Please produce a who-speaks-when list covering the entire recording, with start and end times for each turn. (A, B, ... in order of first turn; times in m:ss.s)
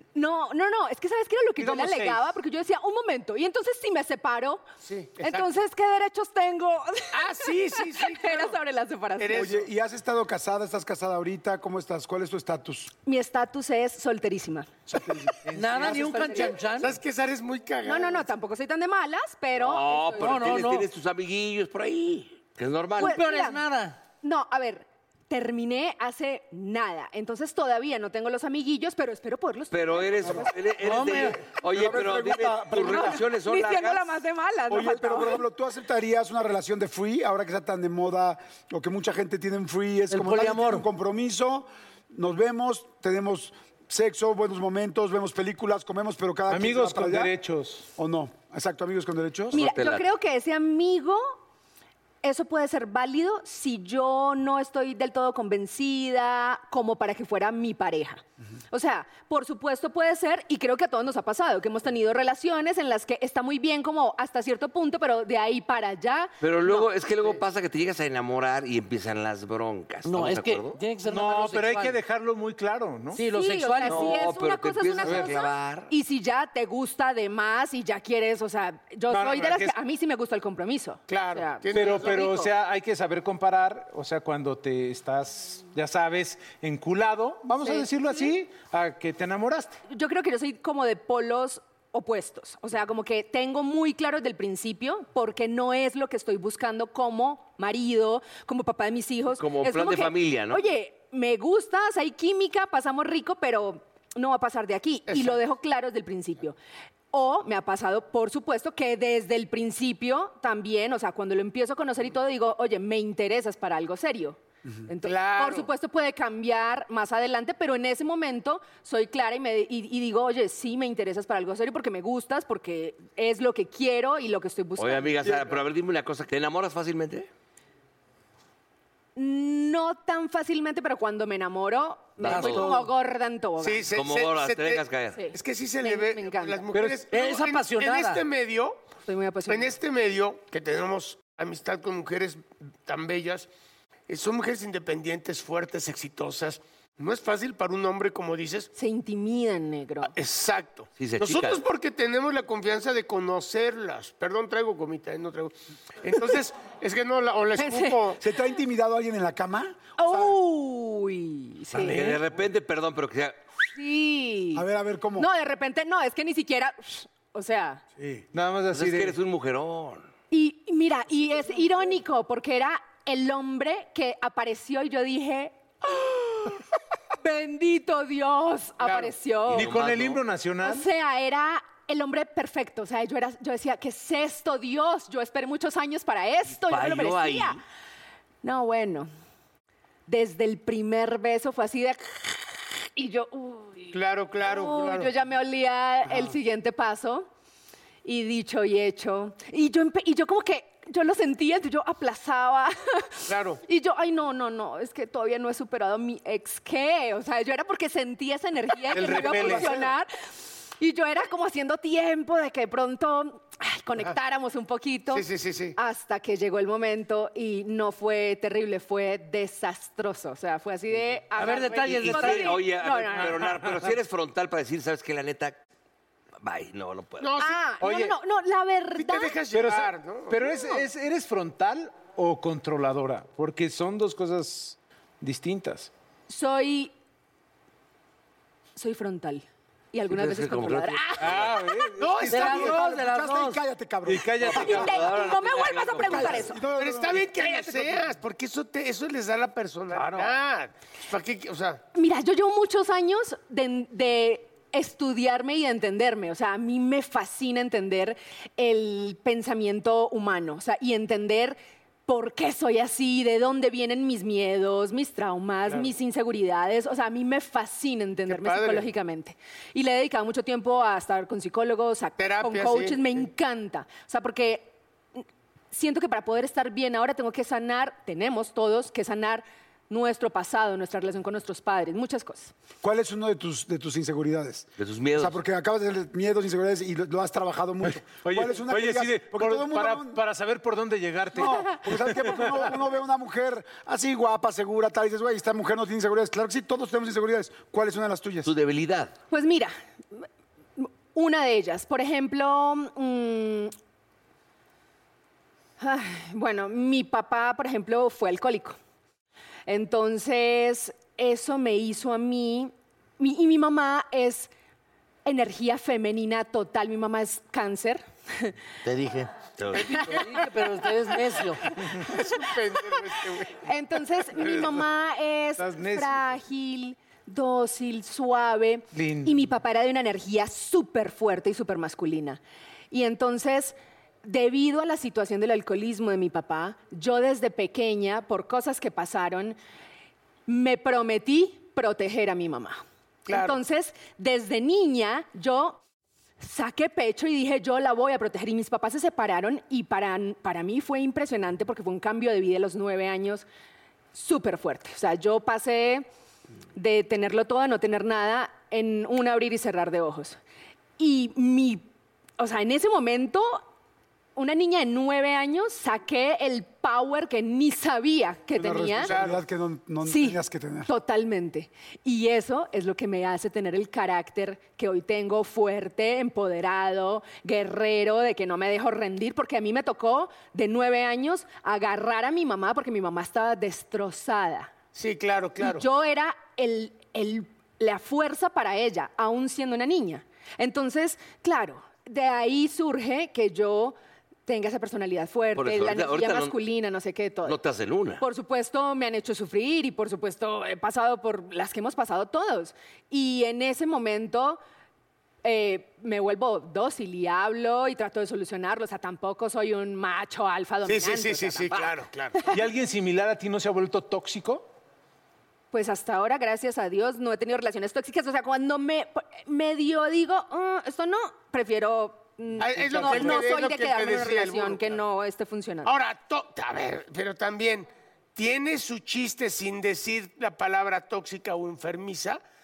0:00.1-0:04.7 A
0:01.6-0:02.2 B
0:04.8-0:05.5 C
0:05.2-0:09.5 A
0:07.1-0:08.6 C
0:09.2-0:09.6 C
0:09.3-0:12.9 D
0:13.0-0:14.8 A
0:14.9-0:15.4 D
0:15.5-0:17.0 E
0:15.8-0:18.3 C
0:16.2-0:16.5 A
0:17.8-0:20.6 A
0:19.5-0:23.2 F
0:20.2-0:20.9 E
0:23.0-0:23.6 A
0:23.0-0:24.0 E
0:24.2-0:30.4 A
0:29.7-0:34.2 F
0:30.2-0:30.5 D
0:30.8-0:31.4 E
0:31.6-0:33.2 D
0:32.7-0:35.4 A
0:34.7-0:47.3 D
0:40.1-0:40.9 E
0:46.5-0:47.9 B
0:48.0-0:49.6 D
0:49.5-0:50.1 F
0:49.5-0:51.4 A
0:52.2-1:06.9 A
1:06.4-1:10.8 F
1:10.0-1:12.0 E
1:11.1-1:13.2 B
1:13.1-1:14.3 E
1:13.3-1:22.5 A
1:13.8-1:15.9 F
1:15.0-1:15.3 B
1:19.1-1:19.7 B
1:21.1-1:22.4 C
1:21.7-1:29.8 B
1:27.6-1:28.3 A
1:29.9-1:46.6 A
1:39.3-1:40.6 F
1:45.1-1:45.4 C
1:47.1-2:05.4 A
1:55.0-1:55.7 C
2:04.8-2:07.3 F
2:09.1-2:13.9 A
2:12.2-2:12.8 F
2:12.2-2:12.8 E
2:13.6-2:18.9 C
2:13.9-2:15.3 F
2:15.2-2:16.7 A
2:16.7-2:18.2 E
2:19.0-2:19.8 A
2:19.5-2:23.5 C
2:24.1-2:28.7 C
2:28.7-2:30.1 A
2:30.0-2:38.2 C
2:31.0-2:31.6 F
2:37.6-2:38.0 A
2:38.2-2:40.3 D
2:40.0-2:42.2 A
2:41.7-2:43.4 F
2:43.7-2:47.8 A
2:44.5-2:45.3 D
2:48.3-2:49.2 B
2:48.7-2:50.1 F
2:50.3-2:56.6 A
2:57.2-2:59.7 A
2:58.8-2:59.2 C
2:59.5-3:00.9 B
2:59.5-3:00.2 F
3:00.6-3:07.6 A
3:06.6-3:07.6 F
3:08.4-3:09.1 A
3:10.1-3:17.3 A
3:13.9-3:15.1 C
3:16.1-3:16.3 C
3:18.0-3:43.4 A
3:23.3-3:23.6 C
3:28.9-3:29.7 B
3:29.0-3:29.9 D
3:35.1-3:35.7 C
3:41.4-3:42.6 E
3:42.0-3:45.6 F
3:43.1-3:44.0 B
3:46.4-3:47.3 F
3:47.2-3:47.6 C
3:47.4-3:49.4 A
3:47.8-3:48.2 B
3:49.0-3:50.5 C
3:49.5-3:55.9 B
3:56.3-3:56.9 A
3:58.8-4:01.5 A
4:00.0-4:01.6 F
4:01.2-4:02.6 B
4:02.0-4:02.7 C
4:02.0-4:04.9 D
4:02.3-4:03.6 E
4:04.0-4:05.0 B
4:04.5-4:06.5 F
4:04.5-4:06.6 A
4:06.1-4:08.1 D
4:06.7-4:11.8 C
4:09.9-4:10.3 E
4:11.9-4:42.5 A
4:28.3-4:28.9 C
4:32.2-4:33.2 C
4:42.8-4:50.2 D
4:44.8-4:45.4 F
4:47.9-4:52.7 B
4:51.3-4:58.5 D
4:58.4-4:59.1 F
4:59.3-5:00.2 A
5:00.8-5:03.7 A
5:05.8-5:08.8 A
5:09.7-5:14.5 A
5:15.2-5:18.5 A
5:18.8-5:21.6 E
5:19.7-5:20.4 C
5:19.9-5:20.2 A
5:21.8-5:23.6 C
5:21.9-5:32.4 A
5:25.6-5:26.2 B
5:28.9-5:29.5 B
5:32.9-5:39.6 A
5:40.5-5:45.8 A
5:43.3-5:43.6 C
5:46.4-5:53.5 A
5:54.1-5:56.1 A
5:56.7-6:00.4 A
6:01.0-6:01.8 A
6:02.4-6:03.6 A
6:04.4-6:09.2 A
6:08.5-6:10.9 D
6:09.0-6:09.3 C
6:10.0-6:24.7 A
6:24.9-6:25.8 C
6:25.6-6:37.6 A
6:35.5-6:36.6 F
6:37.4-6:38.2 F
6:38.2-6:44.6 A
6:45.4-6:52.5 A
6:50.8-6:52.5 C
6:52.5-6:54.7 B
6:55.7-7:05.9 A
7:02.6-7:05.0 C
7:02.8-7:03.3 D
7:05.8-7:12.4 C